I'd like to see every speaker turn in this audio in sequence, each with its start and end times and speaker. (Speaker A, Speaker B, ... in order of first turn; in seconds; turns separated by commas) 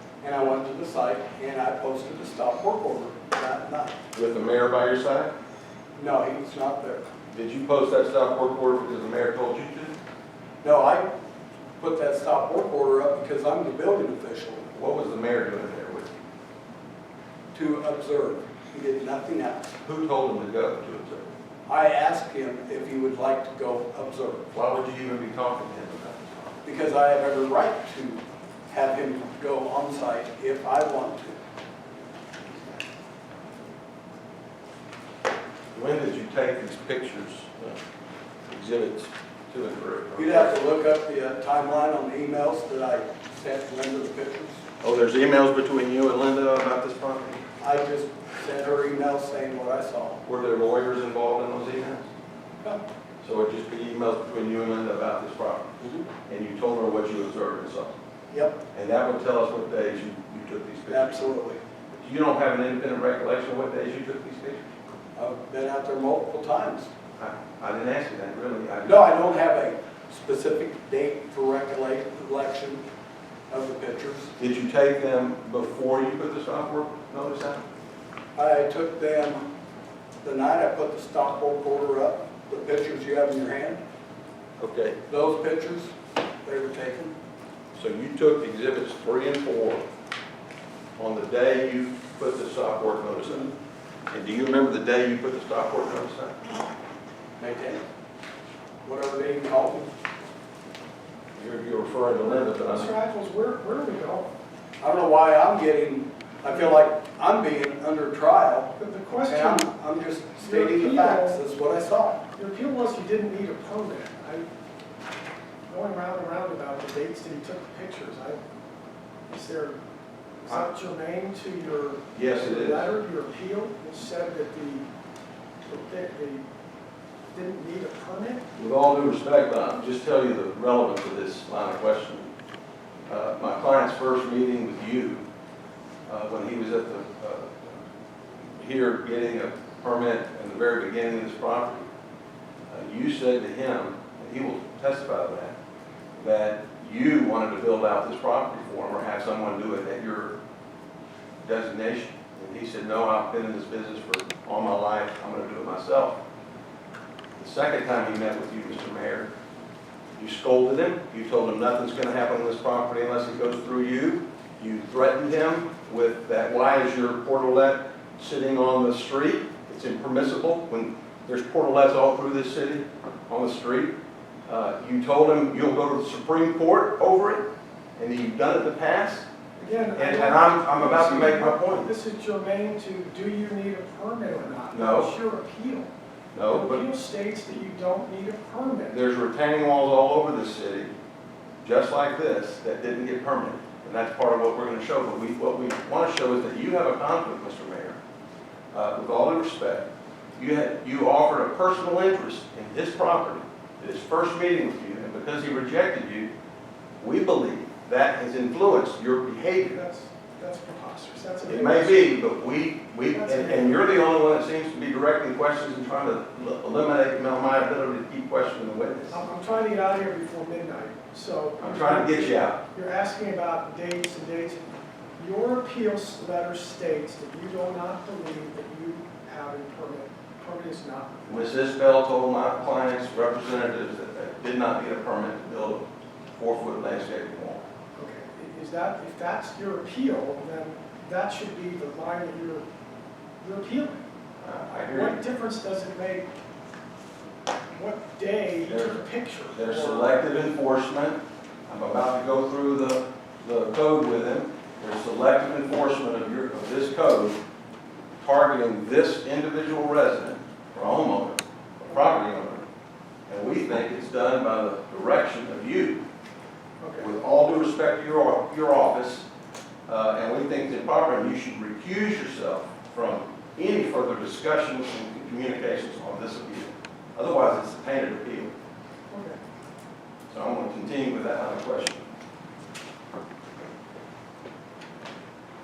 Speaker A: 0.2-4.0, Speaker B: 4.1-5.3, Speaker A: 5.9-7.1, Speaker B: 7.3-9.9, Speaker A: 10.6-11.1, Speaker A: 11.8-14.7, Speaker B: 14.7-16.1, Speaker A: 17.5-19.8, Speaker B: 19.8-21.3, Speaker A: 21.7-24.5, Speaker B: 24.5-26.6, Speaker A: 26.6-31.4, Speaker B: 35.7-37.8, Speaker B: 38.5-40.5, Speaker A: 40.1-44.6, Speaker B: 44.8-47.4, Speaker A: 47.6-50.2, Speaker B: 50.2-52.1, Speaker B: 53.2-55.7, Speaker A: 55.8-56.0, Speaker B: 56.3-58.0, Speaker A: 58.3-58.6, Speaker B: 58.7-61.3, Speaker A: 60.9-61.6, Speaker B: 61.9-64.7, Speaker A: 65.1-66.9, Speaker B: 67.2-69.1, Speaker A: 68.8-72.8, Speaker A: 73.5-74.3, Speaker B: 74.4-77.7, Speaker A: 78.3-79.5, Speaker A: 80.2-83.8, Speaker B: 84.6-85.0, Speaker A: 85.1-87.1, Speaker B: 87.8-89.8, Speaker B: 91.0-93.5, Speaker B: 94.1-96.4, Speaker A: 97.4-97.9, Speaker A: 98.8-99.9, Speaker B: 101.3-102.9, Speaker C: 102.2-104.3, Speaker A: 104.8-108.7, Speaker C: 108.8-109.7, Speaker A: 109.3-112.2, Speaker C: 110.4-111.4, Speaker C: 112.3-114.5, Speaker C: 115.7-118.4, Speaker C: 119.3-119.8, Speaker C: 120.4-124.9, Speaker B: 122.1-122.9, Speaker C: 125.6-126.4, Speaker C: 127.3-128.4, Speaker B: 128.6-132.3, Speaker B: 133.1-135.2, Speaker B: 136.1-137.8, Speaker B: 138.5-141.8, Speaker B: 142.7-145.5, Speaker B: 146.2-150.3, Speaker B: 151.4-156.2, Speaker B: 157.4-159.3, Speaker B: 160.2-173.9, Speaker B: 174.5-177.4, Speaker B: 178.0-181.9, Speaker C: 179.7-185.9, Speaker B: 184.7-185.1, Speaker B: 186.3-186.8, Speaker C: 186.5-188.9, Speaker B: 188.9-190.9, Speaker B: 191.6-198.0, Speaker B: 198.7-206.3, Speaker B: 207.0-209.8, Speaker C: 209.7-212.2, Speaker B: 211.5-219.2, Speaker C: 213.1-213.9, Speaker C: 219.1-231.4, Speaker B: 221.6-222.6, Speaker B: 231.2-237.6, Speaker C: 237.9-242.7, Speaker C: 243.4-244.0, Speaker B: 244.4-245.2, Speaker C: 244.9-246.3, Speaker C: 247.7-250.2, Speaker B: 248.7-257.4, Speaker B: 258.2-262.6, Speaker B: 263.3-266.0, Speaker C: 266.8-267.1, Speaker B: 267.0-269.2, Speaker B: 269.9-278.5, Speaker C: 279.1-279.4, Speaker B: 280.3-282.1